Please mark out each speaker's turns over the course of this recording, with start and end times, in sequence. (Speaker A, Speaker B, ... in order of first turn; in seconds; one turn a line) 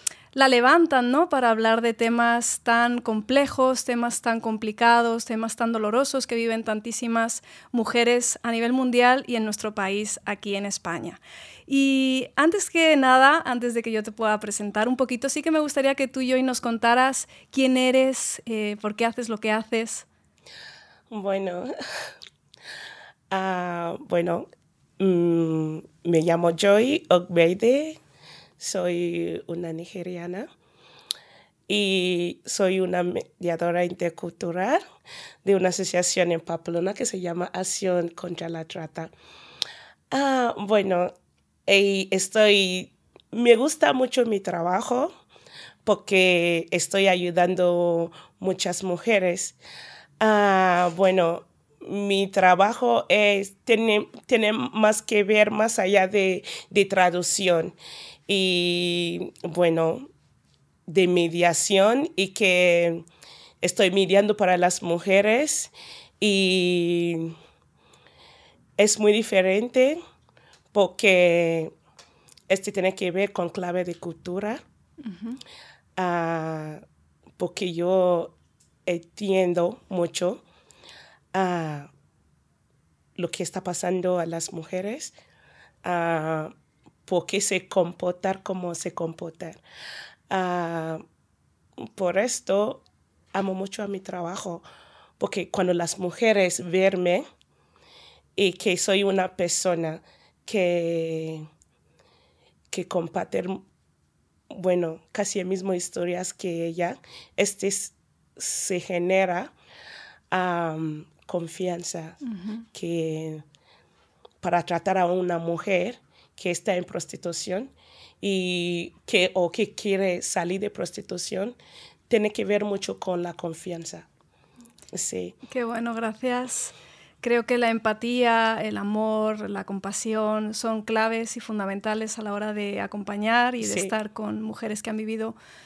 Speaker A: 0.3-20.1
Speaker B: 21.1-21.7
Speaker B: 23.3-24.5
Speaker B: 25.0-28.0
Speaker B: 28.6-30.5
Speaker B: 31.7-34.8
Speaker B: 35.4-39.1
Speaker B: 40.1-41.1
Speaker B: 41.6-45.1
Speaker B: 45.8-49.6
Speaker B: 50.2-57.8
Speaker B: 58.3-60.1
Speaker B: 60.9-63.0
Speaker B: 63.6-67.3
Speaker B: 68.8-70.0
Speaker B: 70.7-71.7
Speaker B: 72.5-74.6
Speaker A: 75.0-75.4
Speaker B: 76.0-76.8
Speaker B: 77.4-78.3
Speaker B: 78.8-80.4
Speaker B: 81.3-81.9
Speaker B: 83.2-85.1
Speaker B: 85.8-86.5
Speaker B: 87.1-89.6
Speaker B: 90.3-91.0
Speaker B: 91.8-94.6
Speaker B: 95.2-97.2
Speaker B: 98.3-101.5
Speaker B: 102.7-103.6
Speaker B: 104.5-109.5
Speaker B: 110.3-112.2
Speaker A: 112.2-112.6
Speaker B: 112.7-113.4
Speaker B: 114.4-121.6
Speaker B: 122.1-124.1
Speaker B: 124.9-125.4
Speaker A: 125.5-135.4
Speaker B: 133.6-133.9